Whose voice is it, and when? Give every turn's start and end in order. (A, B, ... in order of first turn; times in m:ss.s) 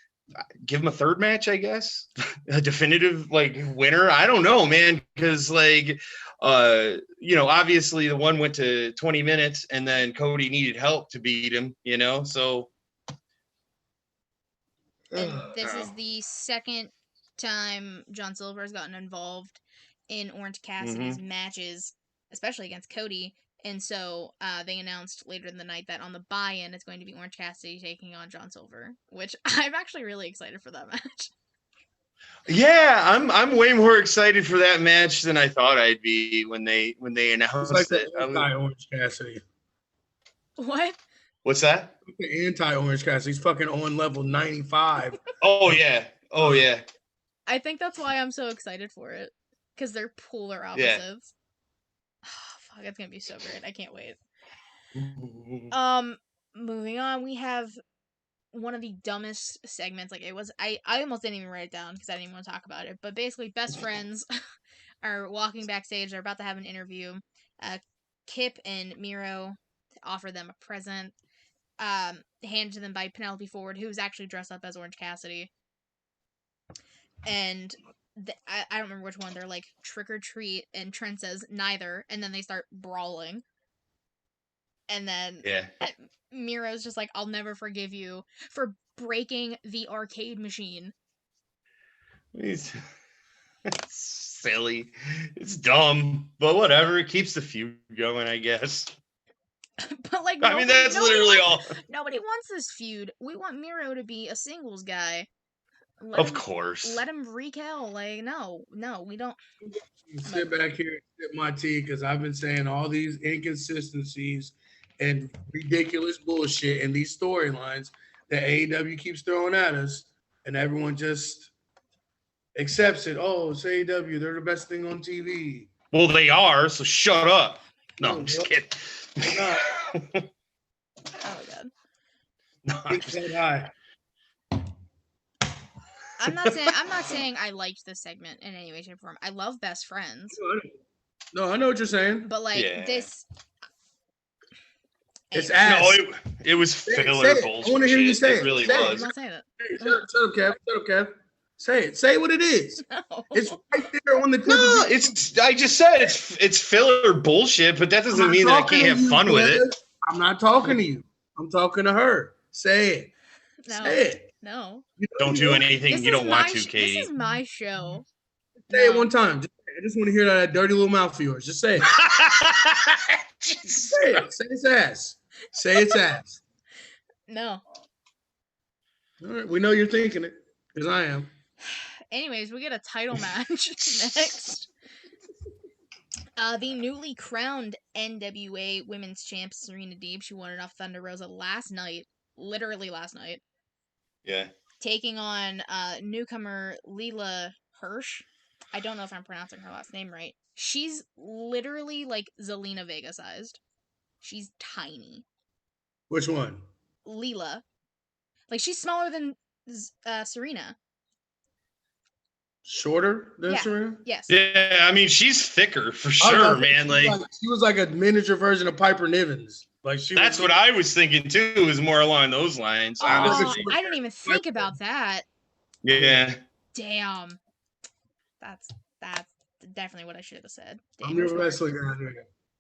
0:00.6-0:12.7 A
0:15.2-0:15.9 A
0:15.2-0:31.3 B
0:20.8-0:21.2 A
0:32.5-0:38.5 A
0:37.6-0:39.4 C
0:40.6-0:41.0 B
0:41.4-0:41.9 A
0:42.0-0:45.2 C
0:45.4-0:46.8 A
0:47.5-0:51.3 B
0:50.7-0:51.0 A
0:52.2-0:54.2 B
0:55.0-0:55.7 A
0:55.7-0:57.8 B
0:58.5-1:04.3 B
1:05.0-1:11.1 B
1:11.8-1:15.5 B
1:17.2-1:23.4 B
1:24.9-1:30.9 B
1:25.4-1:25.7 A
1:32.3-1:32.8 A
1:33.7-1:38.9 A
1:39.8-1:45.3 B
1:40.4-1:41.7 A
1:46.0-1:49.4 B
1:46.2-1:47.0 A
1:50.1-2:01.5 C
1:50.2-1:50.5 B
2:02.6-2:05.7 C
2:05.9-2:10.2 A
2:08.0-2:08.5 C
2:09.3-2:09.6 C
2:11.2-2:11.7 B
2:12.6-2:13.2 A
2:12.9-2:13.7 C
2:16.2-2:20.4 B
2:16.3-2:16.5 A
2:20.3-2:20.7 C
2:21.3-2:22.3 C
2:22.2-2:23.2 B
2:22.5-2:23.1 A
2:25.3-2:25.6 B
2:25.3-2:26.0 C
2:25.6-2:29.1 A
2:26.9-2:29.1 C
2:28.6-2:30.0 B
2:29.6-2:35.0 C
2:32.9-2:33.6 B
2:34.4-2:39.6 A
2:38.1-2:43.1 C
2:43.7-2:44.8 B
2:43.7-2:44.3 C
2:45.0-2:45.6 C
2:45.2-2:47.1 A
2:45.9-2:48.0 B
2:48.7-2:49.1 B
2:48.7-2:51.9 C
2:52.0-2:53.9 A
2:53.7-2:56.4 C
2:57.3-2:57.6 B
2:59.2-3:01.3 C
3:02.1-3:04.7 B
3:06.4-3:13.4 B
3:14.2-3:14.5 A
3:14.8-3:23.6 B
3:24.2-3:25.2 B
3:26.1-3:26.6 C
3:27.0-3:27.6 B
3:28.5-3:30.8 B
3:32.6-3:34.0 C
3:33.5-3:34.3 B
3:34.3-3:37.2 A
3:36.2-3:40.5 C
3:40.1-3:43.7 A
3:43.0-3:45.2 B
3:43.0-3:44.7 C
3:45.8-3:46.4 A
3:46.0-3:46.3 C
3:46.7-3:47.4 B
3:48.4-3:51.6 B
3:51.0-3:52.2 C